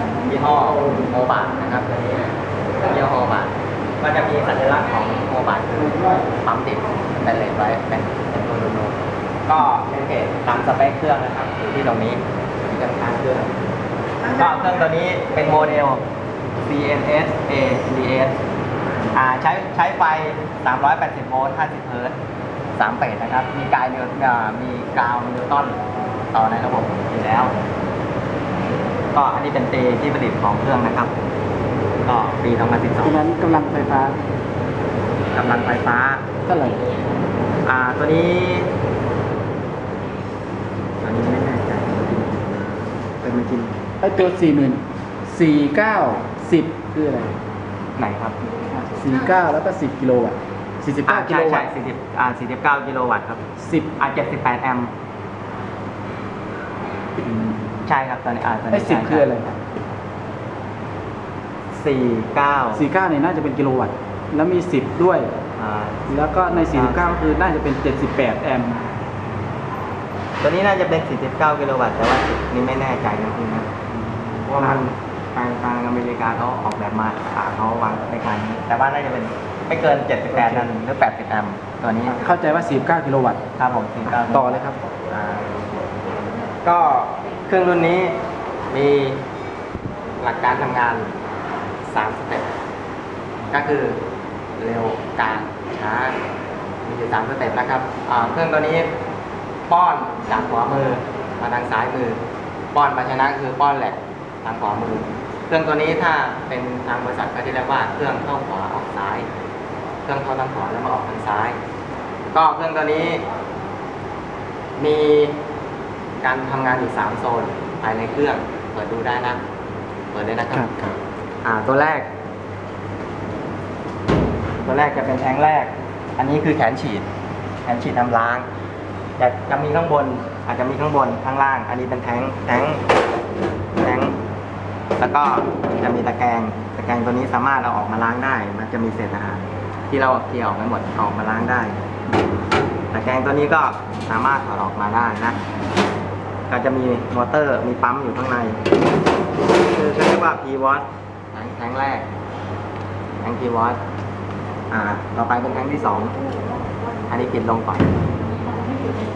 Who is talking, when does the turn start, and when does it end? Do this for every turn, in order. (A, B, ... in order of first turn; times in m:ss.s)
0:00.2-0:13.5 A
0:05.8-0:06.2 B
0:14.3-0:16.0 A
0:16.6-0:18.4 A
0:19.1-0:22.1 A
0:22.8-0:25.8 A
0:26.3-0:27.5 A
0:29.1-0:31.1 A
0:32.0-0:33.2 A
0:33.0-0:34.2 B
0:35.3-0:36.2 A
0:36.4-0:36.9 B
0:37.6-0:38.7 A
0:41.0-0:42.7 A
0:43.2-0:43.7 A
0:44.0-0:47.3 B
0:48.0-0:48.4 A
0:48.7-0:51.7 B
0:51.0-0:53.4 A
0:53.6-0:53.9 B
0:54.0-0:54.9 A
0:57.2-0:57.8 B
0:57.8-0:59.6 A
0:58.7-0:59.5 B
1:01.7-1:02.8 A
1:02.7-1:05.3 B
1:05.6-1:07.1 A
1:06.1-1:08.8 B
1:10.4-1:13.7 A
1:14.4-1:22.2 A
1:20.3-1:20.7 B
1:22.1-1:23.4 B
1:23.6-1:25.6 A
1:24.3-1:24.8 B
1:26.6-1:28.2 A
1:28.7-1:29.2 A
1:30.2-1:31.1 A
1:31.8-1:32.5 A
1:33.5-1:34.0 A
1:34.6-1:36.2 A
1:36.8-1:38.9 A
1:39.7-1:42.2 A
1:42.7-1:49.3 A
1:50.0-1:51.6 A
1:52.3-1:53.2 A
1:54.8-1:55.4 A
1:56.2-1:59.4 A
2:00.1-2:00.7 A
2:00.5-2:01.0 B
2:01.4-2:02.1 A
2:04.6-2:07.0 A
2:07.6-2:08.4 A
2:09.2-2:12.8 A
2:13.8-2:14.2 A
2:15.0-2:21.7 A
2:22.9-2:25.4 A
2:26.5-2:28.6 A
2:29.6-2:32.0 A
2:33.2-2:33.8 A
2:34.7-2:36.2 A
2:37.1-2:37.9 A